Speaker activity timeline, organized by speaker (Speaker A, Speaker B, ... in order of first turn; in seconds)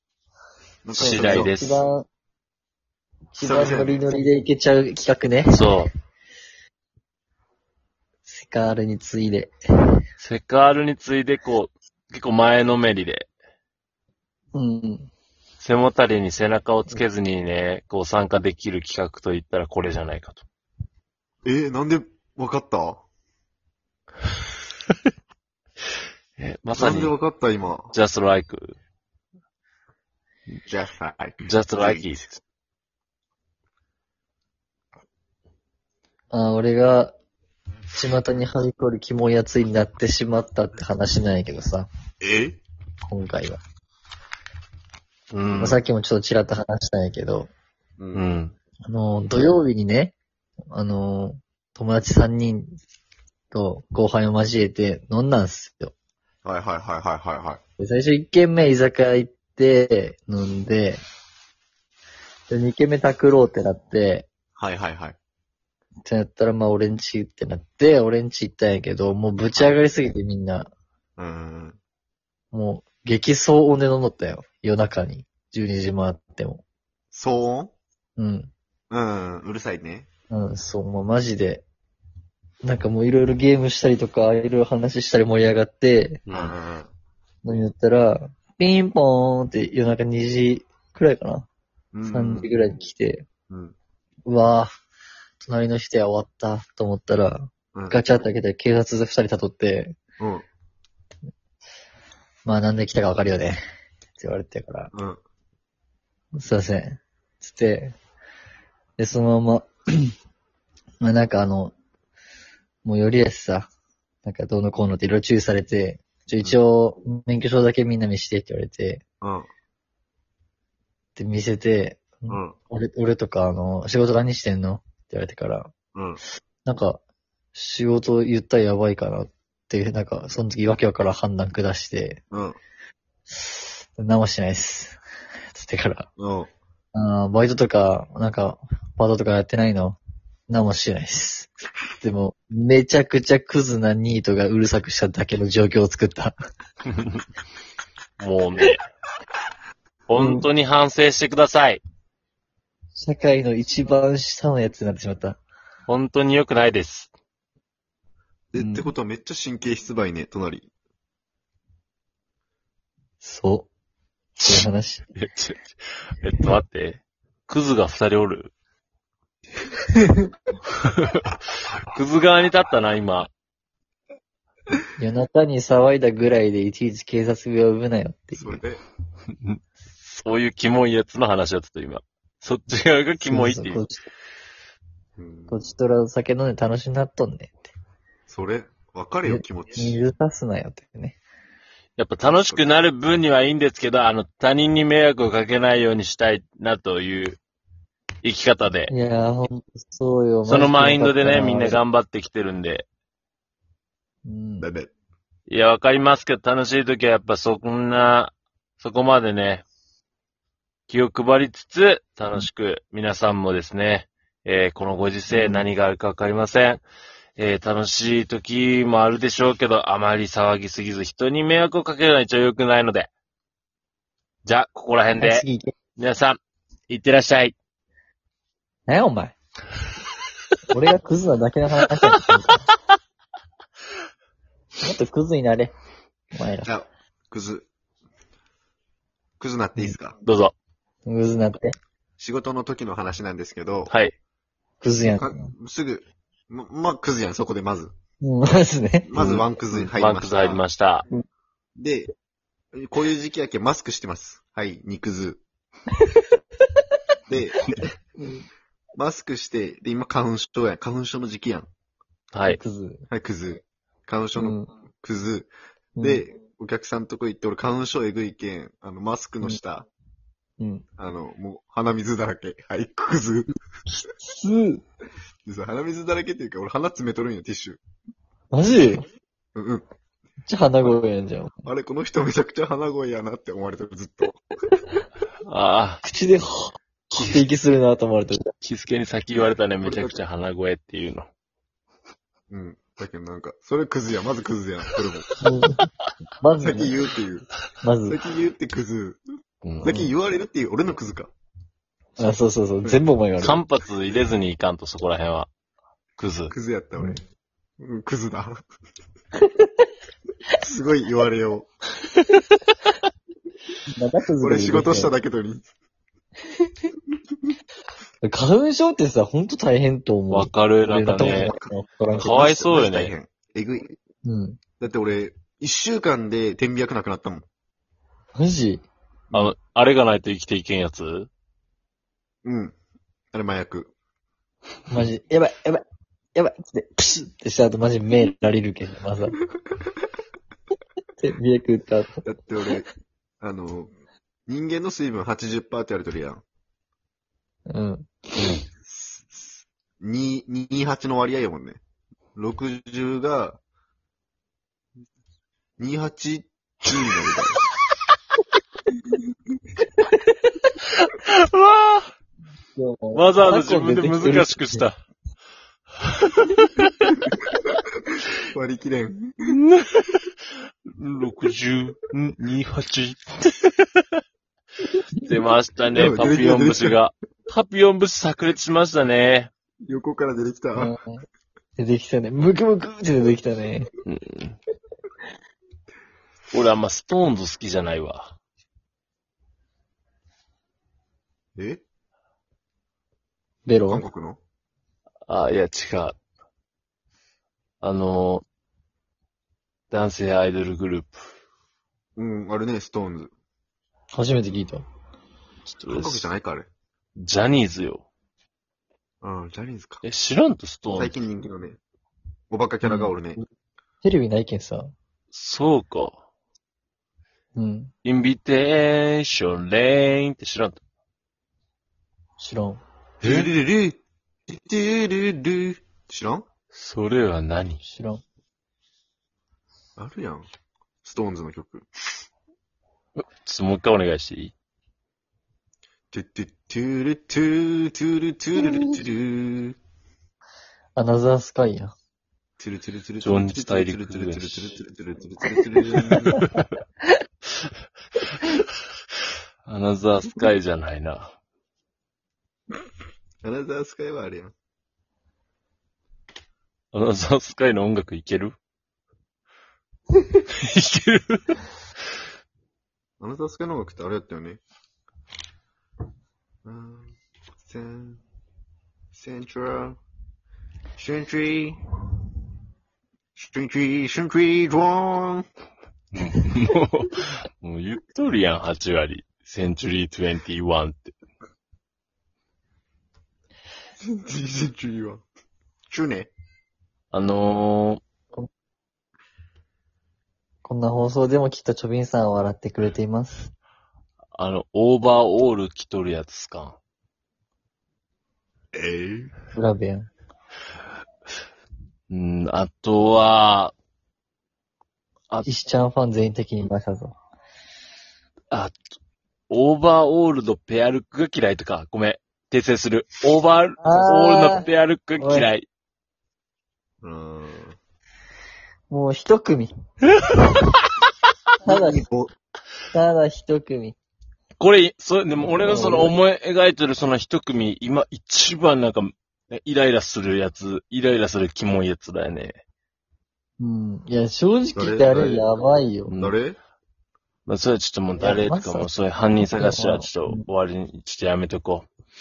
Speaker A: 0.8-1.5, 3.4-4.0, 21.4-23.0, 26.8-27.9, 30.7-32.1, 42.2-42.6, 48.0-48.3, 56.4-57.6, 64.6-65.2, 71.2-71.8, 77.1-77.7, 78.9-80.1, 86.3-86.9, 91.9-92.5, 93.5-93.8, 100.2-100.5, 104.9-105.2, 119.2-119.5, 122.3-122.6, 125.9-126.2, 132.3-132.6, 136.2-136.5, 158.5-160.7, 178.3-178.8, 185.2-185.6, 188.3-190.0, 192.3-192.7, 204.6-204.9, 236.7-237.7, 239.4-240.2, 242.2-243.9, 245.1-247.9, 249.1-250.6, 251.8-252.1, 252.7-255.4, 257.3-257.8, 258.9-261.7, 263.1-269.9, 271.0-273.5, 275.5-277.8, 279.6-279.9, 281.6-284.4, 289.8-290.2, 292.5-295.3, 296.6-297.5, 298.1-299.2, 299.8-301.3, 306.5-307.2, 307.8-308.6, 310.6-311.7, 314.4-315.6, 322.3-324.0, 324.8-327.5, 329.3-329.6, 332.4-332.8, 333.3-333.9, 342.2-342.9, 343.4-343.9, 344.5-346.4, 348.9-351.8, 352.4-353.6, 355.8-357.6, 368.5-369.6, 375.9-377.0, 379.9-380.9, 391.6-391.8, 393.9-394.4, 402.2-403.3, 405.9-406.7, 409.2-410.0, 410.9-411.8, 412.5-413.4, 423.2-424.0, 424.5-426.5, 430.0-430.5, 431.0-431.9, 436.1-439.8, 442.6-446.5, 453.4-454.5, 463.2-464.6, 466.6-468.2, 469.1-470.0, 471.0-471.8, 473.4-475.5, 484.0-485.2, 485.9-486.3, 498.7-499.3, 517.0-517.8, 521.6-522.3, 534.8-535.5, 536.2-536.6
Speaker B: 0.9-1.8, 5.5-5.9, 10.2-13.3, 15.6-20.4, 26.4-27.2, 27.9-28.8, 31.5-32.4, 45.3-45.8, 48.1-48.5, 86.3-86.5, 148.2-148.8, 150.1-151.8, 155.9-157.1, 165.2-168.5, 170.8-171.3, 171.9-173.3, 179.4-183.8, 192.0-197.4, 198.2-198.9, 200.4-202.9, 205.5-209.7, 210.9-216.8, 217.4-223.1, 224.4-225.4, 226.0-226.4, 226.9-227.6, 240.2-240.5, 249.1-251.1, 262.3-262.6, 285.5-286.0, 287.1-287.4, 288.6-291.3, 299.6-299.9, 303.4-305.5, 306.2-306.5, 320.3-321.5, 322.1-323.1, 329.3-331.3, 360.9-362.1, 363.1-364.9, 366.3-367.1, 369.5-370.3, 370.9-374.1, 375.2-379.5, 384.1-384.6, 386.5-388.3, 395.3-396.2, 397.8-398.4, 399.9-401.2, 405.7-406.3, 407.2-408.1, 410.0-411.1, 415.3-416.2, 418.0-420.8, 423.2-423.5, 426.7-427.8, 433.2-434.5, 443.2-444.8, 449.7-451.3, 456.9-458.5, 460.5-461.6, 476.1-481.1, 487.1-488.0, 494.4-496.8, 502.1-503.7, 508.5-508.8, 509.5-515.7, 520.2-520.8, 524.6-532.5, 536.1-536.4, 537.5-541.9
Speaker C: 1.0-2.1, 3.3-5.6, 8.3-9.5, 14.5-15.1, 36.3-37.1, 37.9-41.9, 43.0-43.6, 45.6-47.5, 48.9-50.2, 50.7-52.8, 53.5-55.9, 57.8-61.0, 62.5-64.3, 66.1-70.7, 72.5-76.6, 78.2-78.5, 80.3-81.7, 82.6-86.2, 87.4-91.5, 92.1-93.3, 94.3-94.7, 95.4-100.0, 102.5-103.6, 104.2-104.9, 106.3-108.0, 109.0-110.1, 111.0-111.8, 112.8-113.7, 114.2-119.0, 121.2-125.7, 126.7-127.0, 127.5-132.2, 134.0-135.0, 135.5-136.1, 136.9-140.0, 140.5-146.3, 150.2-150.5, 153.0-155.4, 158.6-158.9, 163.2-163.7, 164.4-165.0, 175.0-178.6, 183.2-184.1, 185.5-187.7, 189.2-191.2, 198.9-201.8, 204.2-204.7, 215.3-215.7, 225.2-225.7, 228.9-229.4, 230.7-232.7, 234.8-235.7, 236.3-236.7, 241.1-241.7, 244.8-245.5, 248.2-249.1, 262.5-263.1, 264.4-264.7, 266.0-266.2, 270.6-270.9, 274.2-274.8, 278.5-279.0, 280.5-281.6, 286.0-288.4, 295.4-295.8, 296.4-296.9, 297.8-298.2, 299.9-300.1, 302.2-303.6, 314.0-315.1, 318.2-322.6, 324.2-324.6, 328.4-328.9, 334.9-335.8, 336.4-339.4, 341.2-342.3, 347.7-348.2, 362.8-364.9, 380.8-381.2, 381.8-383.9, 393.6-394.1, 404.1-404.9, 414.0-414.9, 417.6-417.9, 422.4-422.8, 427.8-428.2, 441.0-441.9, 490.6-493.5, 499.5-500.1, 505.4-507.2, 513.8-514.6, 515.2-515.5, 518.9-519.7, 521.6-522.1, 522.9-524.0, 525.4-526.1, 533.6-536.2, 538.2-538.9, 539.5-540.5